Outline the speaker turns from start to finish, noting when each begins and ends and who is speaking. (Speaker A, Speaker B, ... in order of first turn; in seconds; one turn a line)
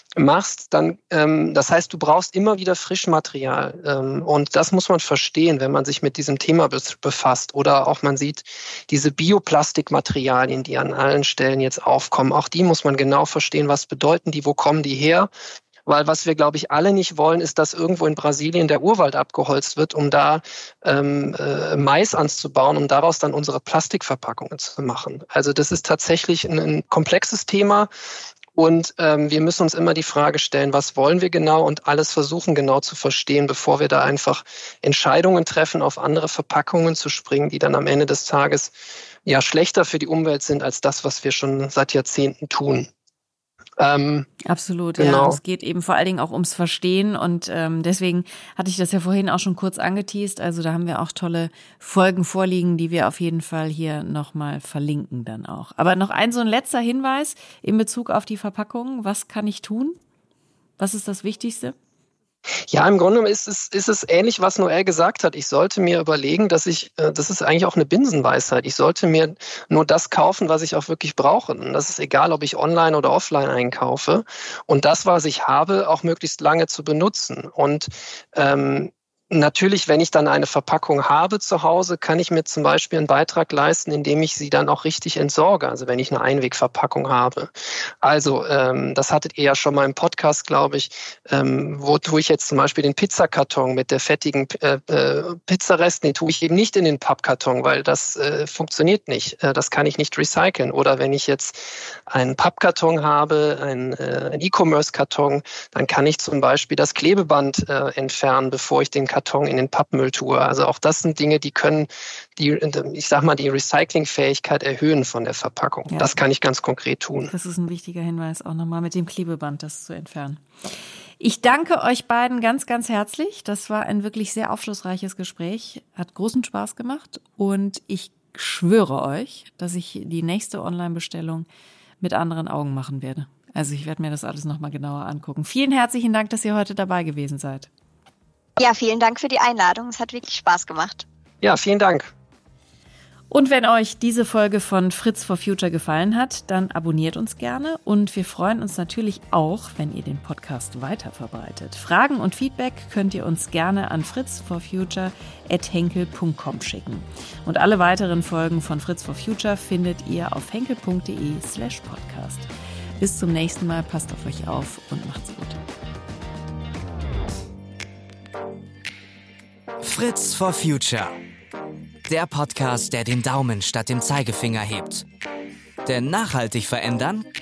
Speaker A: 0.2-15.3
Speaker A: 15.9-27.9
Speaker A: 28.6-38.7
Speaker A: 39.3-42.9
Speaker A: 43.8-44.3
Speaker B: 44.5-60.0
Speaker A: 45.0-45.4
Speaker B: 60.8-61.8
Speaker A: 62.7-117.3
Speaker B: 117.3-131.5
Speaker B: 132.0-137.7
Speaker C: 138.6-141.1
Speaker A: 141.4-142.1
Speaker B: 143.3-165.6
Speaker D: 169.8-171.2
Speaker D: 172.1-175.1
Speaker D: 175.8-177.3